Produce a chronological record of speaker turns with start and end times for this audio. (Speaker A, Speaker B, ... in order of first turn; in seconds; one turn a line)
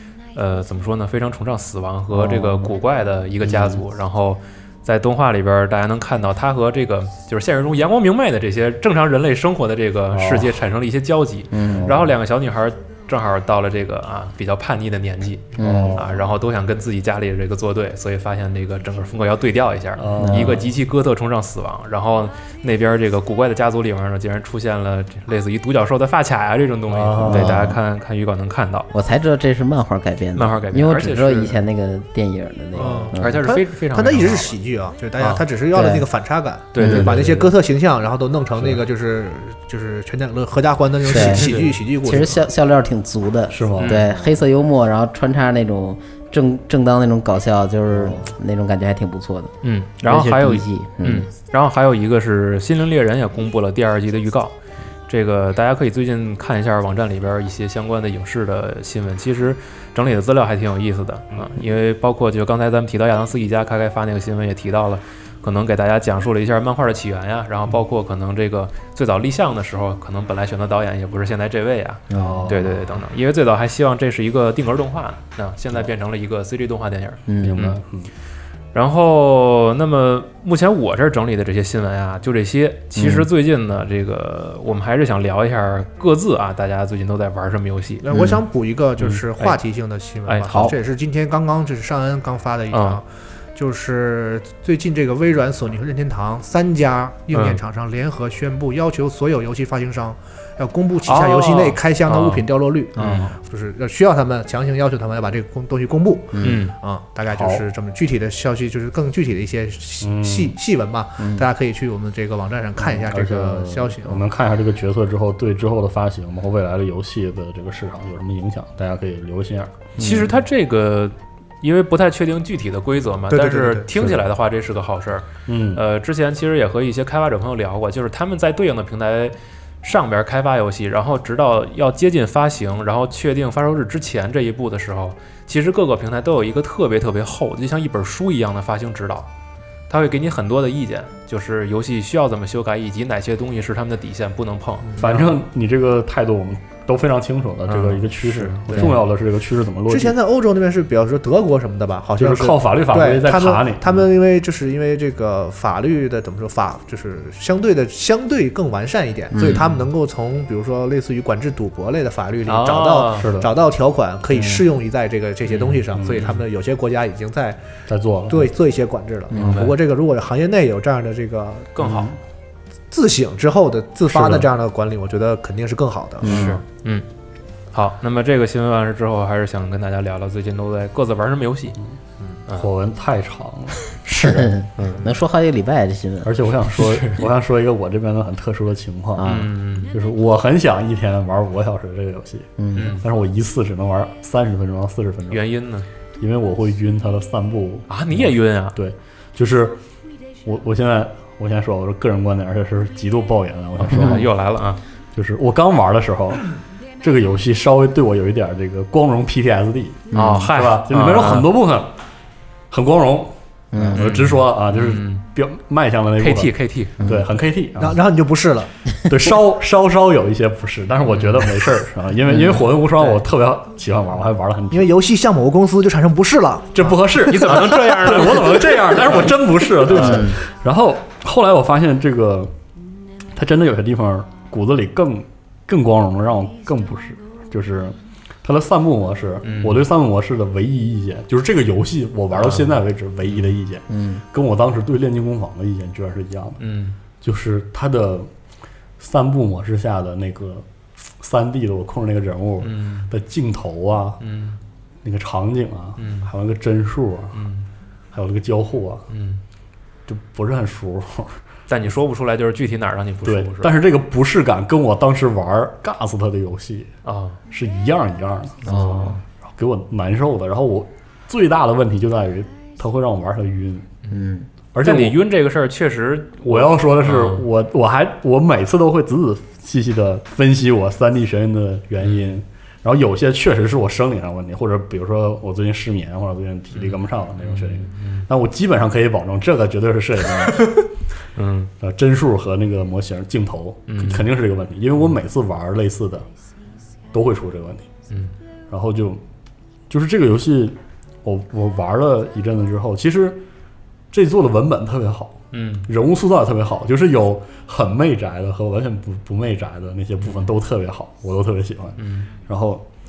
Speaker A: 0.3-28.9
Speaker B: 2.1-2.7
Speaker B: 3.4-3.8
Speaker B: 10.1-10.6
Speaker C: 11.5-11.9
Speaker B: 11.7-12.2
Speaker C: 15.6-16.0
Speaker B: 15.6-16.1
Speaker B: 19.9-20.7
Speaker C: 20.2-20.6
Speaker B: 26.9-27.7
Speaker C: 27.2-27.8
Speaker C: 28.9-33.5
Speaker A: 30.3-31.6
Speaker D: 32.7-42.5
Speaker A: 33.1-34.5
Speaker C: 35.7-36.0
Speaker A: 36.7-37.1
Speaker C: 36.8-37.3
Speaker B: 36.8-37.5
Speaker C: 41.1-51.3
Speaker B: 41.1-41.8
Speaker B: 43.5-44.1
Speaker A: 43.8-44.1
Speaker B: 47.9-48.3
Speaker A: 49.6-54.5
Speaker A: 55.1-77.8
Speaker B: 72.1-72.8
Speaker C: 72.1-72.5
Speaker C: 77.3-77.6
Speaker B: 77.4-78.1
Speaker A: 78.7-88.0
Speaker C: 83.0-83.3
Speaker D: 88.0-114.2
Speaker C: 88.1-88.4
Speaker A: 90.3-90.6
Speaker C: 90.5-90.8
Speaker A: 92.7-93.0
Speaker A: 97.3-97.6
Speaker A: 101.0-102.4
Speaker C: 103.0-103.3
Speaker A: 103.0-103.3
Speaker C: 106.3-106.6
Speaker A: 106.4-106.7
Speaker B: 107.3-107.6
Speaker B: 110.0-110.5
Speaker C: 111.2-111.5
Speaker B: 112.8-120.1
Speaker A: 120.0-139.3
Speaker D: 123.3-123.9
Speaker B: 123.9-124.2
Speaker B: 125.5-125.8
Speaker A: 139.9-145.0
Speaker D: 144.9-145.3
Speaker B: 145.0-150.2
Speaker A: 147.7-148.1
Speaker D: 149.9-167.6
Speaker B: 152.2-154.1
Speaker C: 159.3-159.6
Speaker A: 159.4-159.9
Speaker A: 162.4-163.3
Speaker B: 163.1-163.5
Speaker A: 165.5-166.4
Speaker B: 165.9-166.3
Speaker B: 167.9-168.5
Speaker D: 168.3-171.8
Speaker A: 169.3-169.8
Speaker A: 171.7-172.1
Speaker B: 171.8-172.2
Speaker D: 172.9-176.4
Speaker B: 174.1-174.5
Speaker C: 176.2-176.6
Speaker A: 176.2-177.1
Speaker A: 177.7-181.8
Speaker B: 182.5-184.5
Speaker C: 184.1-186.3
Speaker A: 184.8-185.0
Speaker B: 186.2-195.4
Speaker C: 189.2-189.5
Speaker A: 189.2-189.9
Speaker C: 192.6-192.9
Speaker A: 192.7-193.0
Speaker A: 195.3-195.9
Speaker B: 196.2-199.8
Speaker A: 197.9-198.8
Speaker B: 200.4-204.3
Speaker A: 203.8-204.8
Speaker C: 203.9-204.3
Speaker B: 205.1-206.4
Speaker B: 207.0-211.9
Speaker A: 210.1-211.5
Speaker C: 210.1-210.5
Speaker B: 212.7-218.0
Speaker C: 213.7-214.0
Speaker A: 213.9-215.2
Speaker A: 216.2-217.0
Speaker C: 217.0-217.2
Speaker D: 217.8-218.7
Speaker B: 219.1-224.9
Speaker A: 221.1-221.4
Speaker C: 222.3-222.6
Speaker D: 224.7-227.6
Speaker B: 226.7-232.5
Speaker A: 227.2-229.3
Speaker C: 229.9-230.4
Speaker B: 233.3-246.6
Speaker A: 239.4-239.8
Speaker A: 242.3-242.8
Speaker C: 243.9-244.2
Speaker A: 246.6-247.0
Speaker B: 247.2-248.3
Speaker B: 249.0-250.7
Speaker B: 251.2-254.2
Speaker A: 252.6-253.1
Speaker A: 254.2-254.6
Speaker B: 255.0-257.4
Speaker A: 256.0-256.3
Speaker A: 257.3-257.7
Speaker B: 258.1-259.1
Speaker A: 259.1-259.4
Speaker B: 260.1-261.4
Speaker A: 261.7-263.7
Speaker B: 263.2-266.9
Speaker A: 267.1-267.4
Speaker B: 267.5-273.9
Speaker C: 268.7-269.2
Speaker A: 268.8-269.1
Speaker C: 274.1-274.5
Speaker B: 274.7-275.2
Speaker A: 274.8-277.4
Speaker B: 276.4-290.8
Speaker A: 282.0-282.3
Speaker A: 286.7-288.3
Speaker A: 291.4-291.7
Speaker B: 291.8-296.3
Speaker A: 293.9-294.3
Speaker B: 297.1-297.9
Speaker B: 298.7-299.2
Speaker B: 299.9-303.4
Speaker B: 304.1-312.9
Speaker A: 305.5-305.9
Speaker A: 312.0-312.3